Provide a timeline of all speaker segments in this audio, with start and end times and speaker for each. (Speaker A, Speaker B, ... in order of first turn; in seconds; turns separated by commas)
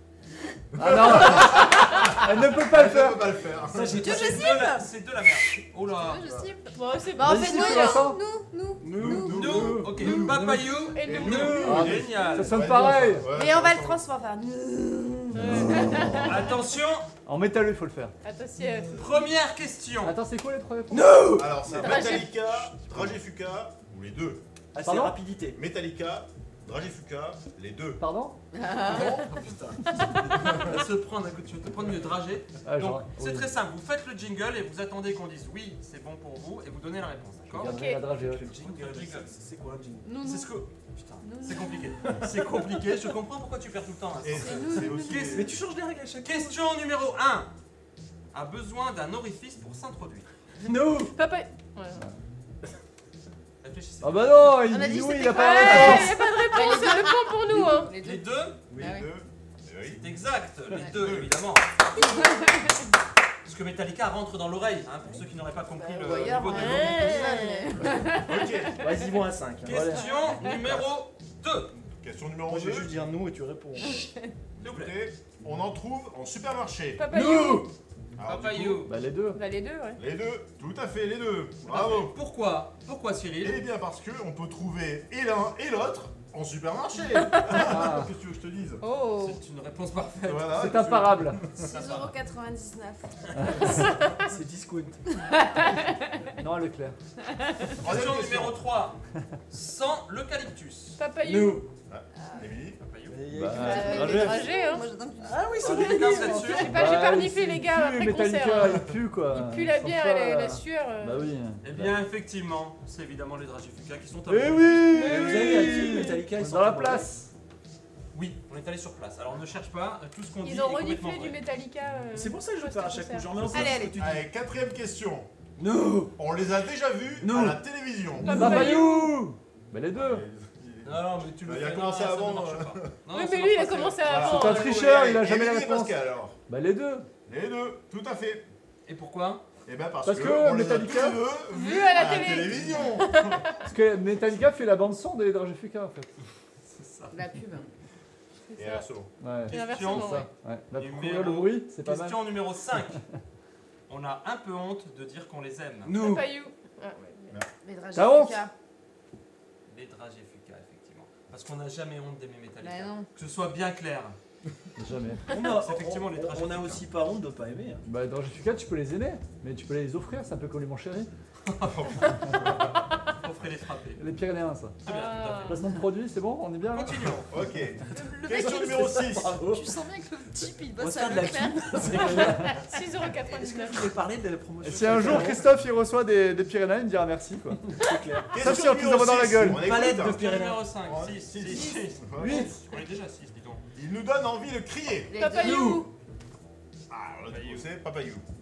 Speaker A: 0.8-4.0, Speaker B: 0.8-3.2, Speaker C: 3.6-4.8, Speaker D: 3.9-4.9, Speaker E: 4.0-6.3, Speaker D: 5.9-10.3, Speaker A: 6.2-6.5, Speaker F: 6.7-8.1, Speaker B: 7.2-8.2, Speaker C: 8.9-10.1, Speaker A: 8.9-10.3, Speaker E: 9.1-12.7, Speaker B: 10.0-10.7, Speaker F: 10.9-11.8, Speaker A: 11.0-14.0, Speaker B: 11.6-13.3, Speaker D: 13.3-16.6, Speaker A: 15.4-16.3, Speaker F: 15.4-16.0, Speaker E: 16.2-17.1, Speaker B: 17.2-18.1, Speaker F: 18.2-19.0, Speaker E: 18.9-20.1, Speaker B: 20.0-21.2, Speaker C: 20.9-22.2, Speaker A: 21.4-24.4, Speaker F: 21.7-22.7, Speaker C: 24.7-25.6, Speaker B: 24.8-25.2, Speaker A: 25.5-28.0, Speaker B: 28.0-28.3, Speaker D: 28.5-29.3, Speaker A: 28.9-29.4, Speaker C: 29.4-29.8, Speaker A: 30.2-30.8, Speaker E: 30.4-37.8, Speaker B: 32.6-33.5, Speaker B: 37.5-38.5, Speaker F: 37.6-38.1, Speaker C: 38.1-40.1, Speaker E: 38.6-39.3, Speaker D: 40.0-40.5, Speaker E: 40.2-45.5, Speaker D: 41.2-42.2, Speaker A: 44.2-45.5, Speaker D: 44.2-45.4, Speaker C: 45.2-46.5, Speaker E: 46.2-47.5, Speaker E: 48.3-50.3, Speaker C: 50.6-51.1, Speaker F: 51.1-52.0, Speaker E: 53.6-54.7, Speaker B: 54.0-56.1, Speaker D: 54.6-59.1, Speaker F: 55.3-58.0, Speaker E: 58.0-58.6, Speaker A: 58.7-60.0, Speaker E: 60.0-61.7, Speaker A: 60.7-61.4, Speaker D: 62.0-62.8, Speaker E: 63.4-67.1, Speaker D: 65.7-68.5, Speaker F: 66.5-68.0, Speaker A: 68.2-68.8, Speaker C: 68.8-70.0, Speaker B: 69.6-70.0, Speaker E: 69.6-71.7, Speaker D: 70.0-70.5, Speaker A: 71.8-72.9, Speaker C: 72.5-74.0, Speaker D: 73.8-74.1, Speaker A: 74.6-77.0, Speaker E: 74.6-75.0, Speaker F: 77.0-77.7, Speaker C: 77.1-77.7, Speaker A: 78.2-78.9, Speaker E: 78.2-78.9, Speaker B: 78.8-79.4, Speaker F: 79.3-80.0, Speaker A: 80.0-82.1, Speaker E: 81.7-83.6, Speaker A: 83.4-88.8, Speaker F: 87.1-87.6, Speaker B: 87.5-88.1, Speaker F: 88.8-89.4, Speaker E: 89.2-90.8, Speaker A: 90.2-91.7, Speaker B: 90.5-91.4, Speaker D: 91.6-93.1, Speaker E: 91.6-92.1, Speaker F: 93.6-94.3, Speaker C: 94.2-95.0, Speaker B: 96.4-97.0, Speaker A: 97.8-98.6, Speaker E: 97.8-99.0, Speaker E: 99.5-101.0, Speaker F: 101.0-101.6, Speaker C: 101.2-101.7, Speaker A: 101.9-102.8, Speaker D: 102.2-102.6, Speaker E: 102.8-103.2, Speaker C: 103.0-104.4, Speaker B: 103.4-104.4, Speaker D: 103.5-106.6, Speaker F: 103.7-104.9, Speaker C: 105.2-106.8, Speaker E: 105.6-106.8, Speaker F: 106.5-111.3, Speaker B: 106.6-112.0, Speaker E: 111.6-115.1, Speaker B: 114.3-117.3, Speaker F: 114.9-115.7, Speaker C: 115.0-117.1, Speaker E: 118.1-121.4, Speaker F: 120.4-123.8, Speaker C: 122.1-124.3, Speaker D: 123.4-124.0, Speaker A: 124.0-125.3, Speaker C: 125.6-126.1, Speaker A: 126.2-128.6, Speaker C: 127.2-127.6, Speaker F: 128.1-129.2, Speaker B: 128.2-130.2, Speaker A: 129.9-132.9, Speaker E: 130.8-134.5, Speaker F: 133.1-134.8, Speaker A: 134.0-136.3, Speaker B: 134.2-137.1, Speaker A: 137.2-138.4, Speaker E: 138.8-139.4, Speaker A: 139.7-143.5, Speaker B: 140.0-141.2, Speaker F: 141.5-143.5, Speaker B: 143.6-146.1, Speaker E: 146.7-147.1, Speaker D: 147.1-147.7, Speaker F: 148.5-148.9, Speaker A: 148.6-149.1, Speaker B: 149.2-152.3, Speaker F: 149.5-150.3, Speaker E: 149.5-153.0, Speaker E: 153.9-156.0, Speaker C: 155.8-156.3, Speaker F: 155.9-157.3, Speaker D: 157.6-158.5, Speaker B: 157.9-158.4, Speaker E: 159.7-164.2, Speaker D: 162.6-163.1, Speaker B: 164.8-165.2, Speaker C: 165.3-167.8, Speaker E: 165.3-166.8, Speaker B: 167.8-171.1, Speaker E: 171.4-172.5, Speaker A: 171.7-172.0, Speaker E: 173.1-174.0, Speaker B: 174.0-174.8, Speaker E: 174.8-175.6, Speaker F: 174.8-175.6, Speaker B: 175.5-176.9, Speaker E: 176.7-177.3, Speaker A: 177.3-179.4, Speaker D: 177.9-182.2, Speaker C: 178.6-179.7, Speaker C: 180.7-182.7, Speaker F: 182.1-183.9, Speaker C: 183.2-185.5, Speaker B: 184.6-187.7, Speaker C: 187.7-188.3, Speaker A: 188.3-192.5, Speaker B: 188.4-189.7, Speaker C: 189.4-190.7, Speaker E: 189.9-193.6, Speaker B: 192.2-192.5, Speaker A: 193.7-195.1, Speaker D: 195.1-195.8, Speaker F: 195.1-195.9, Speaker C: 195.4-195.8, Speaker A: 196.9-198.2, Speaker E: 197.3-197.7